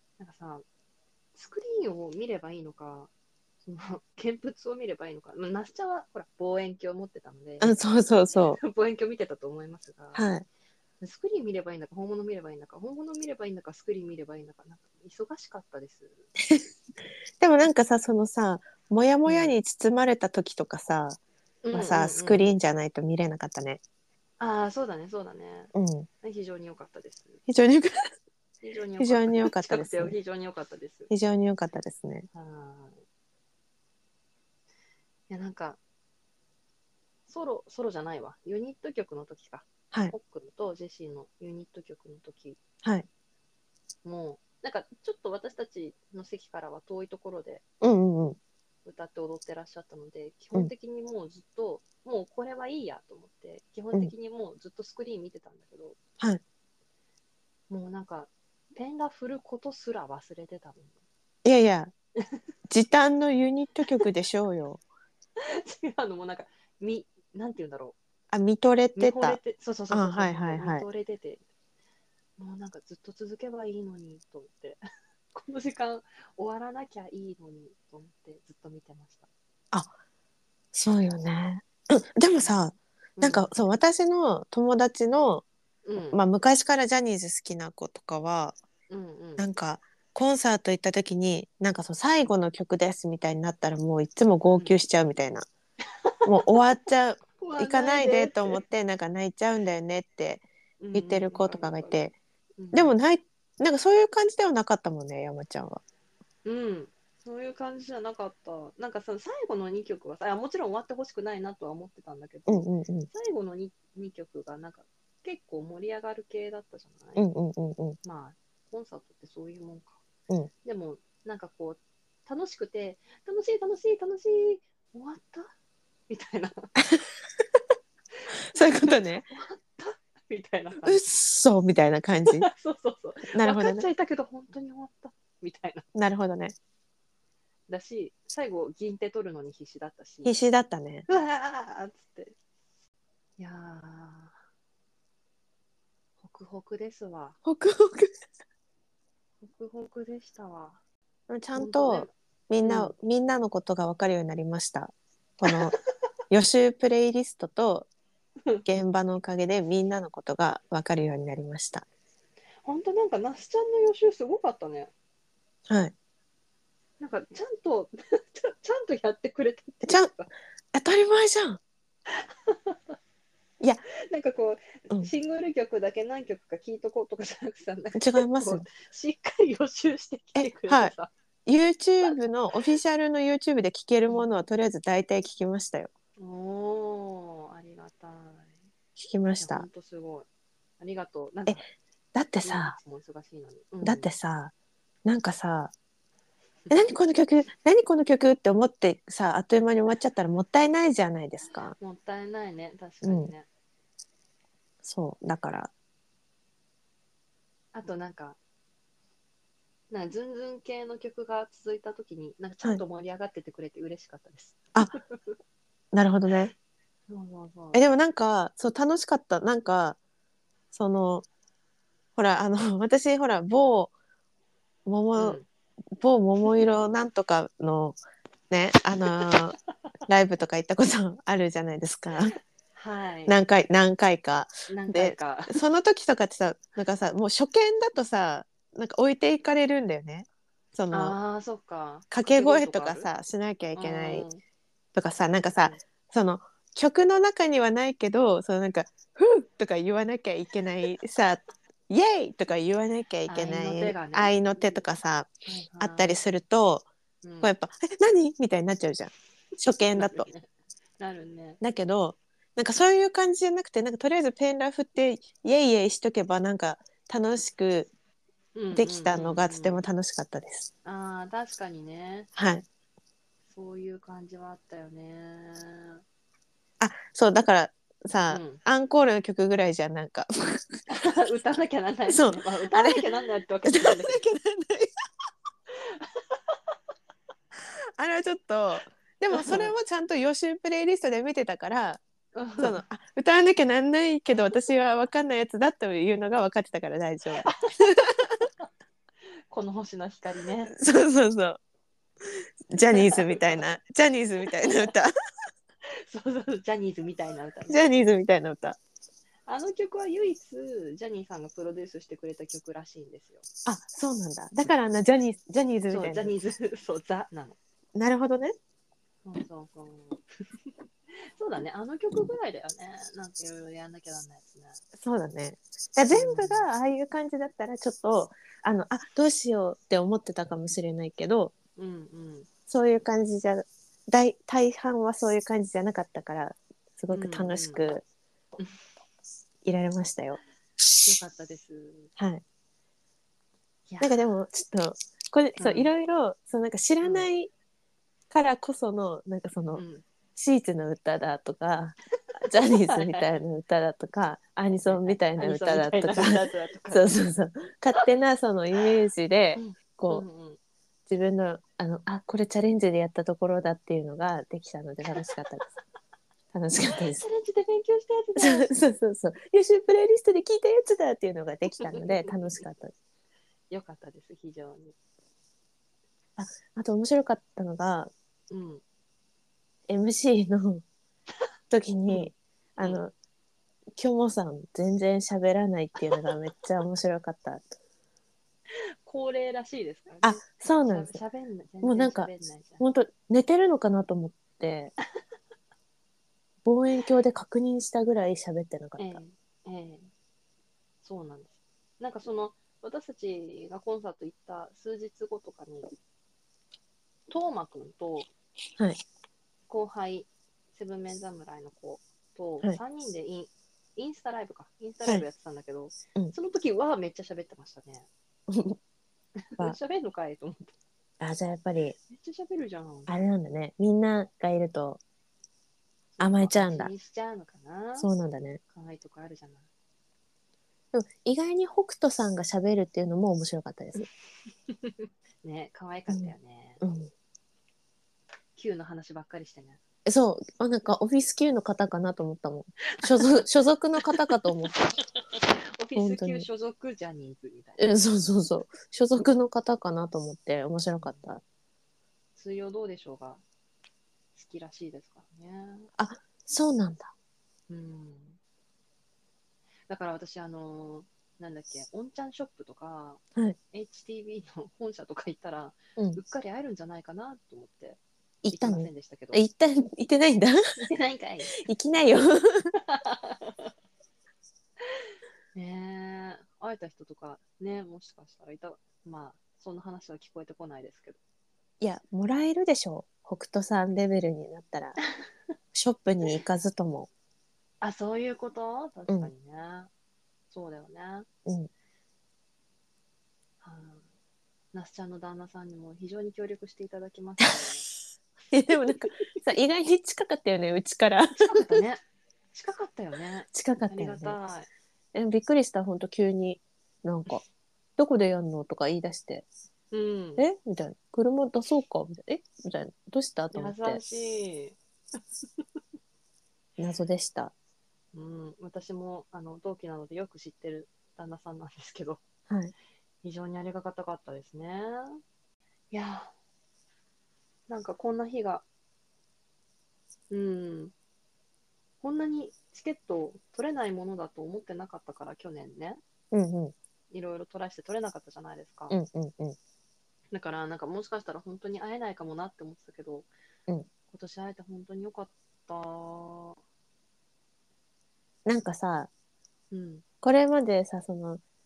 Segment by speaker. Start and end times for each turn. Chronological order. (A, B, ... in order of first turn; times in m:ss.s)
0:00.2-0:00.6 A
0:01.3-0:03.1 A
0:03.6-0:07.8 A
0:07.6-0:08.6 B
0:08.3-0:10.3 A
0:10.1-0:10.4 B
0:11.0-0:16.3 A
0:17.4-0:21.2 B
0:19.2-0:19.5 A
0:21.6-0:22.5 A
0:21.7-0:23.8 B
0:24.4-0:27.4 A
0:25.7-0:26.1 B
0:27.5-0:28.0 B
0:28.6-0:31.1 A
0:29.0-0:30.1 B
0:31.1-0:32.3 B
0:32.3-0:33.0 A
0:35.3-0:35.8 A
0:37.3-0:42.6 A
0:44.0-0:47.6 A
0:47.8-0:48.4 B
0:48.8-0:56.0 A
0:57.7-1:01.0 A
1:01.4-1:01.9 B
1:02.7-1:04.8 B
1:05.4-1:08.0 A
1:08.3-1:09.4 B
1:08.9-1:11.4 A
1:09.9-1:10.8 B
1:12.4-1:14.8 A
1:15.3-1:19.3 A
1:20.7-1:25.4 B
1:23.2-1:23.5 A
1:25.8-1:26.2 A
1:26.1-1:28.6 B
1:28.9-1:29.5 A
1:29.4-1:35.5 B
1:34.5-1:34.8 A
1:36.0-1:36.6 A
1:36.2-1:42.2 B
1:37.4-1:38.6 A
1:40.8-1:42.0 A
1:42.6-1:42.9 A
1:42.7-1:45.8 B
1:46.4-1:57.3 A
1:52.5-1:53.1 B
1:57.2-1:58.0 B
1:58.0-2:00.0 A
2:00.6-2:05.5 A
2:06.1-2:06.7 A
2:08.3-2:09.3 B
2:08.8-2:11.0 A
2:10.8-2:12.5 B
2:12.2-2:15.8 A
2:13.3-2:13.9 B
2:15.9-2:16.5 B
2:17.7-2:20.4 A
2:20.2-2:21.0 B
2:21.1-2:22.4 A
2:23.4-2:24.4 A
2:26.2-2:27.4 A
2:27.4-2:28.2 B
2:29.4-2:30.8 A
2:31.3-2:35.7 B
2:31.5-2:32.9 A
2:35.4-2:35.7 A
2:36.3-2:37.9 B
2:38.6-2:41.8 B
2:42.6-2:44.9 A
2:45.7-2:45.9 B
2:47.0-2:50.3 A
2:49.8-2:50.1 B
2:50.7-2:51.6 B
2:52.1-2:53.0 A
2:54.1-3:01.1 A
2:58.0-2:58.6 B
3:00.4-3:00.9 B
3:01.4-3:05.9 B
3:06.2-3:08.6 A
3:09.0-3:09.7 B
3:09.4-3:10.3 A
3:10.8-3:11.6 A
3:12.1-3:12.8 B
3:12.4-3:14.1 A
3:13.8-3:14.5 B
3:15.0-3:15.7 B
3:16.7-3:21.7 B
3:21.8-3:23.4 A
3:23.0-3:23.3 B
3:24.8-3:25.7 B
3:27.7-3:28.4 A
3:29.9-3:35.4 A
3:35.9-3:36.5 B
3:37.1-3:37.8 A
3:37.7-3:40.0 B
3:40.7-3:41.2 B
3:42.2-3:43.9 B
3:44.8-3:45.4 B
3:45.1-3:45.5 A
3:46.0-3:48.0 B
3:48.5-3:49.6 B
3:49.1-3:49.3 A
3:50.1-3:52.4 B
3:52.7-3:53.4 A
3:53.3-4:01.2 B
3:54.7-3:55.6 A
4:00.9-4:03.1 A
4:02.1-4:04.3 B
4:03.8-4:04.4 A
4:04.9-4:16.9 B
4:13.3-4:14.8 A
4:15.4-4:16.2 A
4:17.2-4:17.5 A
4:17.4-4:20.3 B
4:19.9-4:20.5 A
4:21.0-4:21.6 A
4:21.6-4:27.9 B
4:28.5-4:29.8 A
4:28.7-4:30.7 B
4:30.8-4:32.3 A
4:32.3-4:32.6 B
4:33.5-4:36.0 A
4:36.8-4:40.8 B
4:38.3-4:38.6 A
4:40.9-4:44.2 A
4:42.1-4:43.0 B
4:43.6-4:44.9 B
4:45.7-4:46.4 A
4:48.0-4:52.0 B
4:49.3-4:49.7 A
4:52.3-4:52.8 A
4:52.6-4:57.9 B
4:57.4-4:57.8 A
4:59.5-5:00.7 A
5:00.7-5:01.6 B
5:02.3-5:05.1 B
5:02.9-5:03.6 A
5:04.6-5:04.9 A
5:06.0-5:07.8 A
5:07.7-5:08.8 B
5:09.5-5:13.4 A
5:13.6-5:16.3 B
5:15.9-5:17.6 A
5:17.9-5:18.5 B
5:19.2-5:20.2 A
5:21.1-5:24.8 A
5:25.0-5:31.5 B
5:26.1-5:26.7 A
5:31.8-5:32.5 A
5:32.7-5:38.0 B
5:37.1-5:37.9 A
5:39.6-5:40.4 B
5:41.0-5:42.1 A
5:42.2-5:42.4 B
5:43.9-5:44.2 A
5:44.0-5:47.5 B
5:45.6-5:45.9 A
5:47.0-5:47.3 A
5:48.3-5:49.8 B
5:49.7-5:50.0 A
5:50.4-6:00.2 B
5:52.5-5:53.3 A
5:54.7-5:57.1 A
5:59.6-6:00.6 A
6:01.1-6:05.7 B
6:06.5-6:07.2 B
6:06.9-6:08.7 A
6:08.4-6:12.9 B
6:11.7-6:12.6 A
6:13.7-6:14.9 A
6:16.4-6:18.1 B
6:18.5-6:18.8 A
6:19.9-6:20.8 B
6:21.7-6:23.1 B
6:22.1-6:23.0 A
6:23.9-6:27.7 B
6:29.0-6:32.8 A
6:30.2-6:31.2 B
6:31.8-6:34.9 B
6:36.6-6:39.2 B
6:39.0-6:40.1 A
6:41.0-6:45.9 A
6:47.3-6:48.3 A
6:49.7-6:58.1 A
6:58.5-6:58.8 B
6:59.4-7:00.7 A
7:01.2-7:02.0 B
7:02.1-7:03.1 A
7:03.1-7:05.0 B
7:06.2-7:08.1 A
7:06.2-7:06.9 B
7:08.0-7:08.6 B
7:08.7-7:09.7 A
7:10.9-7:14.1 B
7:14.7-7:16.8 A
7:16.1-7:17.1 B
7:18.6-7:19.8 A
7:20.0-7:24.9 B
7:22.9-7:23.4 A
7:24.0-7:27.9 A
7:25.9-7:26.5 B
7:27.8-7:31.4 B
7:31.0-7:31.3 A
7:32.4-7:33.4 A
7:34.3-7:35.9 A
7:36.0-7:37.1 B
7:37.7-7:38.4 A
7:39.9-7:48.0 A
7:48.4-7:50.6 B
7:48.5-7:49.4 A
7:50.8-7:51.6 A
7:51.5-7:52.7 B
7:52.9-7:53.7 A
7:55.5-8:01.2 A
8:01.8-8:05.0 B
8:05.7-8:07.1 B
8:07.8-8:09.9 A
8:10.5-8:11.3 A
8:13.6-8:14.1 A
8:14.7-8:17.9 A
8:18.5-8:21.8 B
8:21.4-8:22.0 A
8:22.5-8:24.7 A
8:23.5-8:24.4 B
8:25.1-8:27.4 B
8:28.0-8:29.5 B
8:29.9-8:30.4 A
8:30.4-8:34.0 B
8:33.5-8:34.8 A
8:36.8-8:37.5 B
8:38.1-8:42.2 A
8:43.2-8:45.2 A
8:45.9-8:46.3 A
8:47.7-8:48.6 A
8:50.3-8:50.9 A
8:52.0-8:56.0 A
8:56.3-8:56.7 B
8:57.1-8:59.0 A
8:58.9-8:59.6 B
9:00.3-9:03.3 A
9:04.1-9:06.6 A
9:08.4-9:09.1 B
9:09.7-9:10.0 A
9:10.2-9:11.4 B